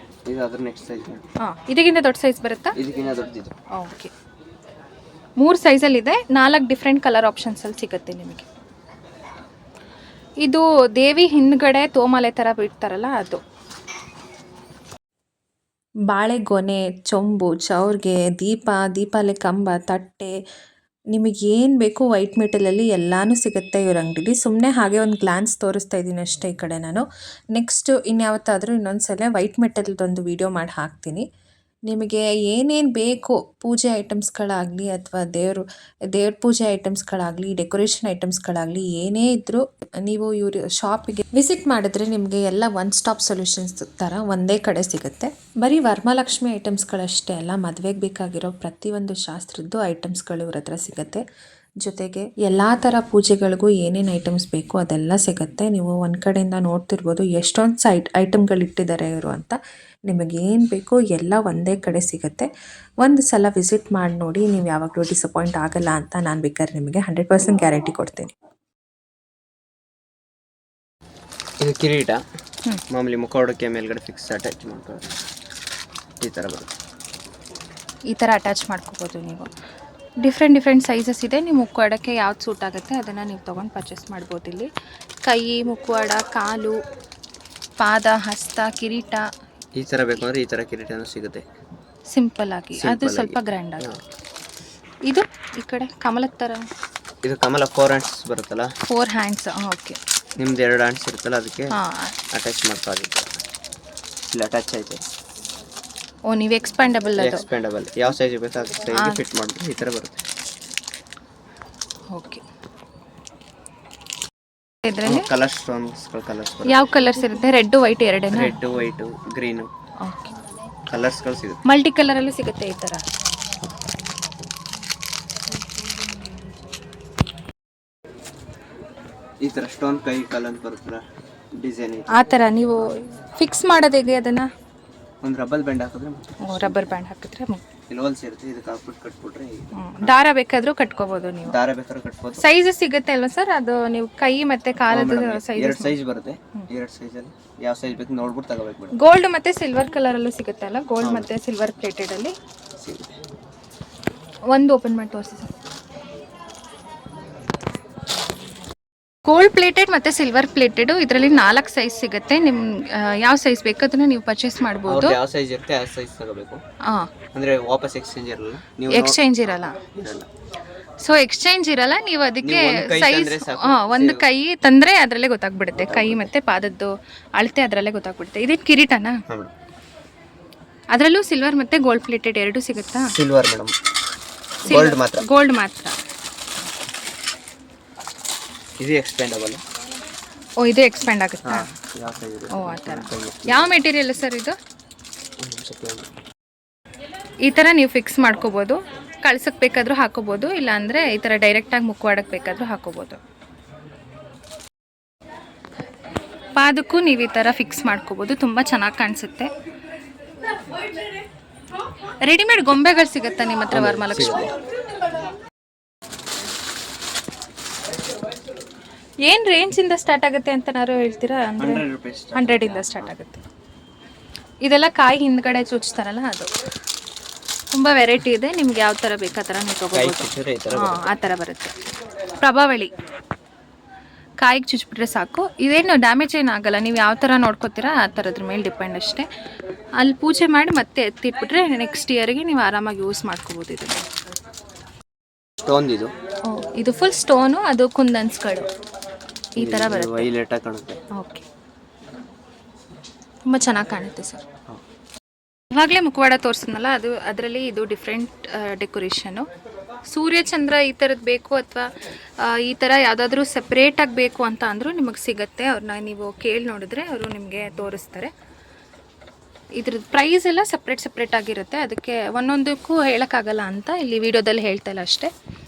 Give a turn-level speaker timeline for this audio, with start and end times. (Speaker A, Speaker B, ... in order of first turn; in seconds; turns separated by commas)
Speaker A: 0.2-1.2, Speaker B: 1.4-2.8, Speaker A: 2.7-3.5, Speaker B: 3.7-4.1, Speaker B: 5.4-8.5, Speaker B: 10.4-13.4, Speaker C: 16.1-20.4, Speaker C: 21.1-31.2, Speaker C: 31.9-51.2, Speaker C: 51.8-62.5, Speaker C: 63.0-68.3, Speaker A: 71.6-72.2, Speaker A: 72.9-75.1, Speaker A: 76.2-76.7, Speaker B: 78.1-79.5, Speaker B: 80.2-84.7, Speaker B: 85.2-86.8, Speaker B: 87.8-89.3, Speaker A: 89.7-91.4, Speaker B: 92.1-93.9, Speaker A: 92.8-94.0, Speaker B: 95.0-96.7, Speaker A: 97.2-98.7, Speaker B: 98.8-100.0, Speaker A: 100.4-101.8, Speaker B: 101.7-102.2, Speaker A: 102.3-103.3, Speaker A: 104.3-105.0, Speaker B: 106.3-107.4, Speaker A: 107.2-110.2, Speaker B: 108.9-109.2, Speaker B: 112.1-112.4, Speaker B: 114.8-115.3, Speaker A: 115.0-116.9, Speaker B: 116.7-118.5, Speaker A: 118.3-119.7, Speaker B: 120.0-120.3, Speaker A: 120.9-121.6, Speaker B: 121.6-123.0, Speaker A: 129.4-132.2, Speaker B: 132.1-134.5, Speaker A: 135.2-136.9, Speaker B: 136.4-137.6, Speaker A: 137.9-140.2, Speaker B: 139.7-141.6, Speaker A: 141.4-142.4, Speaker B: 142.4-145.9, Speaker A: 144.9-148.9, Speaker B: 148.9-152.3, Speaker A: 151.0-151.3, Speaker A: 152.8-153.2, Speaker B: 154.5-155.5, Speaker B: 159.2-165.2, Speaker A: 164.8-166.6, Speaker B: 166.8-167.1, Speaker A: 167.3-169.2, Speaker B: 168.9-169.8, Speaker A: 169.8-170.3, Speaker B: 171.0-179.2, Speaker A: 172.4-174.2, Speaker A: 175.8-176.3, Speaker B: 180.9-183.1, Speaker A: 182.9-183.7, Speaker A: 184.6-185.2, Speaker B: 184.6-185.9, Speaker A: 188.8-189.6, Speaker B: 190.6-191.7, Speaker A: 191.4-193.7, Speaker B: 192.5-194.6, Speaker A: 195.4-196.1, Speaker B: 197.4-203.2, Speaker B: 206.5-209.5, Speaker B: 212.2-214.5, Speaker A: 213.7-214.5, Speaker B: 219.2-221.8, Speaker A: 221.6-223.1, Speaker B: 222.3-223.4, Speaker B: 224.6-226.5, Speaker B: 227.7-231.7, Speaker A: 229.9-231.0, Speaker B: 232.4-232.9, Speaker B: 234.4-239.3, Speaker B: 240.0-244.0, Speaker A: 245.6-246.1, Speaker B: 246.4-248.7, Speaker B: 249.5-250.3, Speaker A: 249.6-251.0, Speaker B: 251.1-251.4, Speaker B: 253.5-254.4, Speaker B: 255.7-259.5, Speaker B: 260.1-268.3, Speaker B: 269.8-275.3